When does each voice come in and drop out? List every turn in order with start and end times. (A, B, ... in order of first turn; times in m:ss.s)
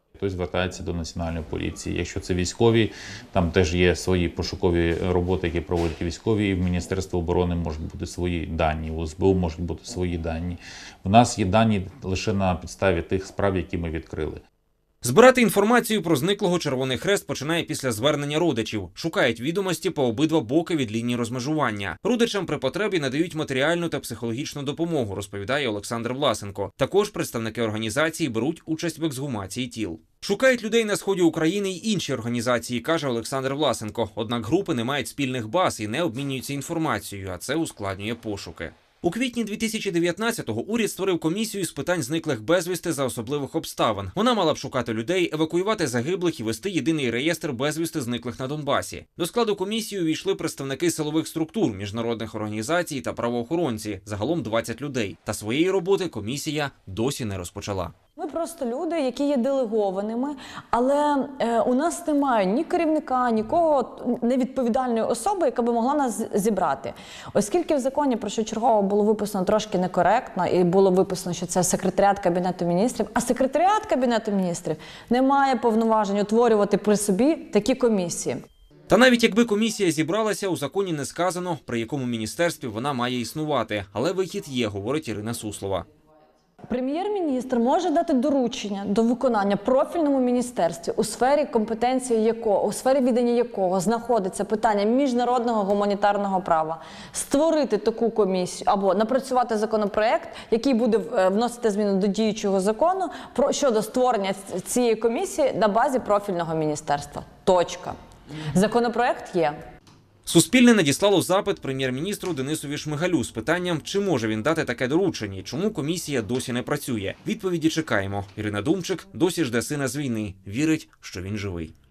0:00.2-0:14.4 A
0:15.0-0:57.9 B
0:58.2-1:18.4 C
1:18.9-1:25.8 B
1:26.7-1:48.0 C
1:48.5-1:49.6 C
1:50.2-2:01.7 B